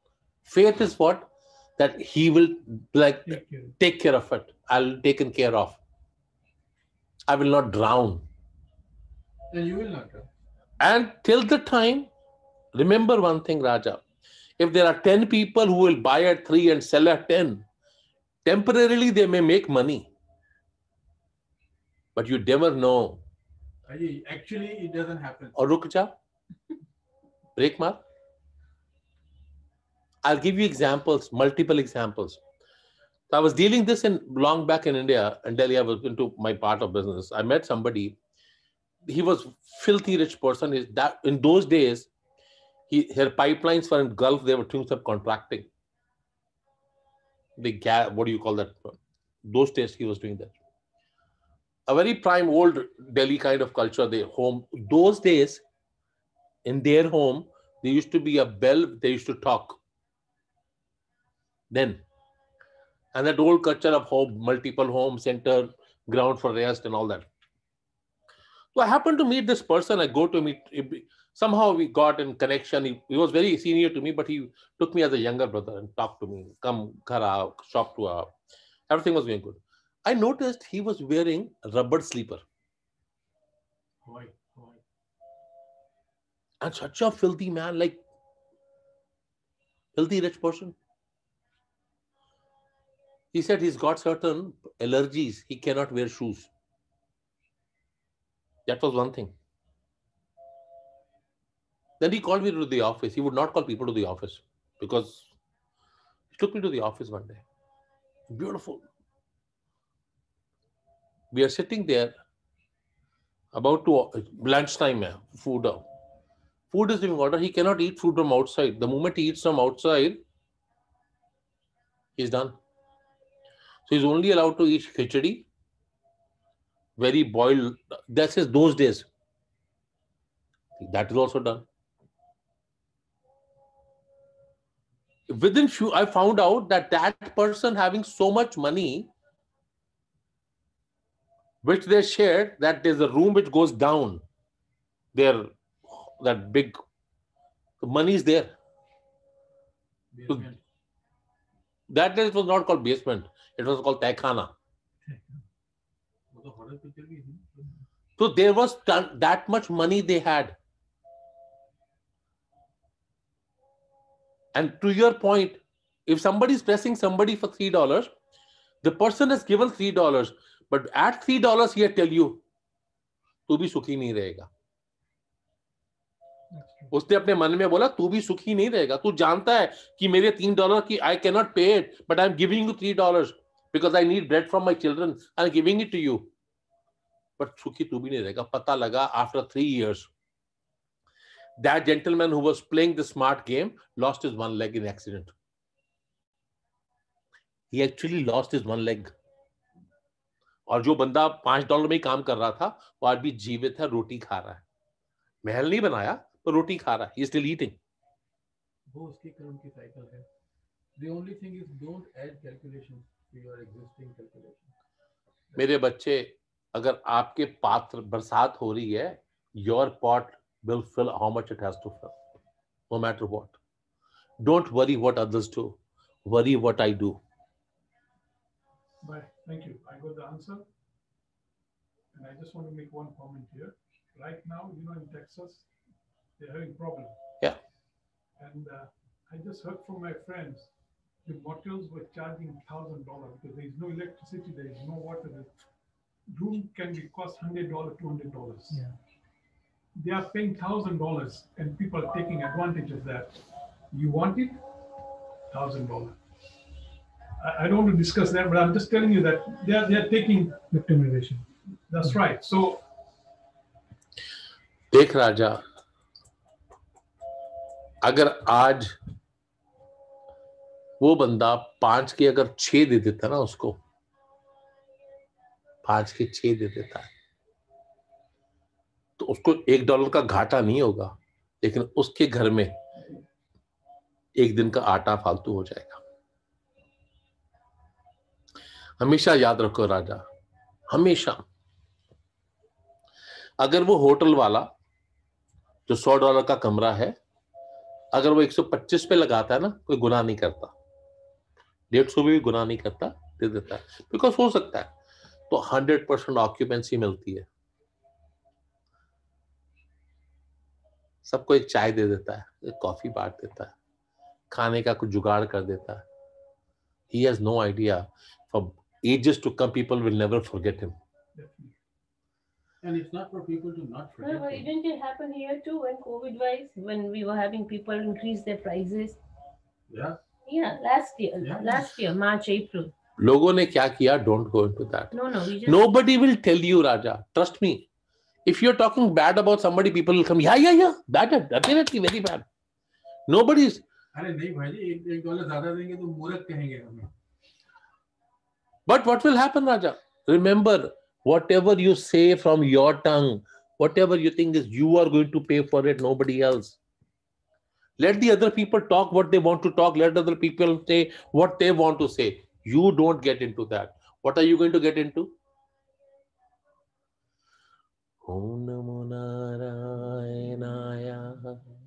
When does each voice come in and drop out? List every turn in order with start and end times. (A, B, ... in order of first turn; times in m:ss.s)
0:00.4-0:05.8 A
0:03.3-0:03.8 B
0:07.3-0:08.2 A
0:09.5-0:10.3 C
0:10.8-0:12.1 A
0:12.8-0:14.0 A
0:14.6-0:17.6 A
0:18.4-0:20.1 A
0:22.2-0:23.2 A
0:23.9-0:25.6 C
0:25.6-0:26.1 A
0:27.6-0:28.0 A
0:30.2-0:32.4 A
0:33.3-0:38.2 A
0:39.1-0:42.1 A
0:42.9-0:45.7 A
0:47.6-0:50.6 A
0:51.9-0:55.6 A
0:56.7-0:59.8 A
1:01.7-1:02.0 A
1:03.1-1:07.3 A
1:08.7-1:18.3 A
1:18.9-1:22.4 A
1:24.0-1:24.8 C
1:26.6-1:28.0 A
1:30.0-1:30.8 A
1:33.3-1:36.5 A
1:38.7-1:39.3 A
1:42.0-1:45.3 A
1:46.3-1:47.4 A
1:48.3-1:48.8 A
1:51.3-1:52.1 A
1:53.5-1:55.8 A
1:56.7-2:00.2 A
2:02.2-2:02.6 A
2:03.9-2:05.5 A
2:07.0-2:09.1 A
2:10.8-2:11.7 A
2:15.3-2:19.1 A
2:21.6-2:24.2 A
2:25.2-2:26.8 A
2:27.8-2:28.5 A
2:30.1-2:30.6 C
2:31.9-2:34.5 A
2:35.0-2:35.4 B
2:36.3-2:37.7 C
2:38.2-2:40.6 A
2:44.6-2:48.1 A
2:48.8-2:52.4 A
2:53.5-2:54.5 A
2:56.5-2:56.9 B
2:56.9-3:06.3 A
3:07.4-3:10.1 A
3:11.6-3:15.3 A
3:17.7-3:19.1 A
3:20.7-3:24.6 A
3:25.4-3:27.8 A
3:28.9-3:30.3 C
3:31.0-3:34.7 C
3:35.6-3:42.2 A
3:42.9-3:43.6 A
3:44.4-3:47.2 A
3:49.0-3:50.7 D
3:52.1-3:55.7 D
3:56.4-3:57.2 D
3:58.4-4:00.7 D
4:01.2-4:05.6 D
4:06.3-4:08.8 D
4:08.7-4:09.0 B
4:10.0-4:13.4 D
4:13.9-4:14.6 D
4:15.5-4:16.2 D
4:17.4-4:20.6 D
4:20.7-4:21.5 B
4:21.9-4:22.8 D
4:24.9-4:25.6 A
4:28.0-4:28.9 A
4:31.0-4:33.8 A
4:35.8-4:37.1 A
4:39.2-4:42.8 A
4:44.4-4:46.0 A
4:49.0-4:50.2 A
4:50.9-4:51.4 A
4:53.6-4:54.7 A
4:55.9-4:57.2 A
4:58.1-5:00.7 A
5:01.9-5:04.9 A
5:05.5-5:07.5 A
5:11.2-5:13.8 A
5:14.5-5:16.1 A
5:17.1-5:21.0 A
5:21.4-5:21.7 D
5:22.8-5:24.7 C
5:24.2-5:29.2 E
5:29.9-5:30.2 C
5:30.5-5:32.9 E
5:31.4-5:31.8 C
5:33.2-5:37.8 A
5:35.1-5:35.8 E
5:38.5-5:42.5 A
5:43.3-5:43.8 A
5:44.1-5:47.1 C
5:48.9-5:56.8 A
5:58.0-6:05.3 A
6:08.2-6:11.6 A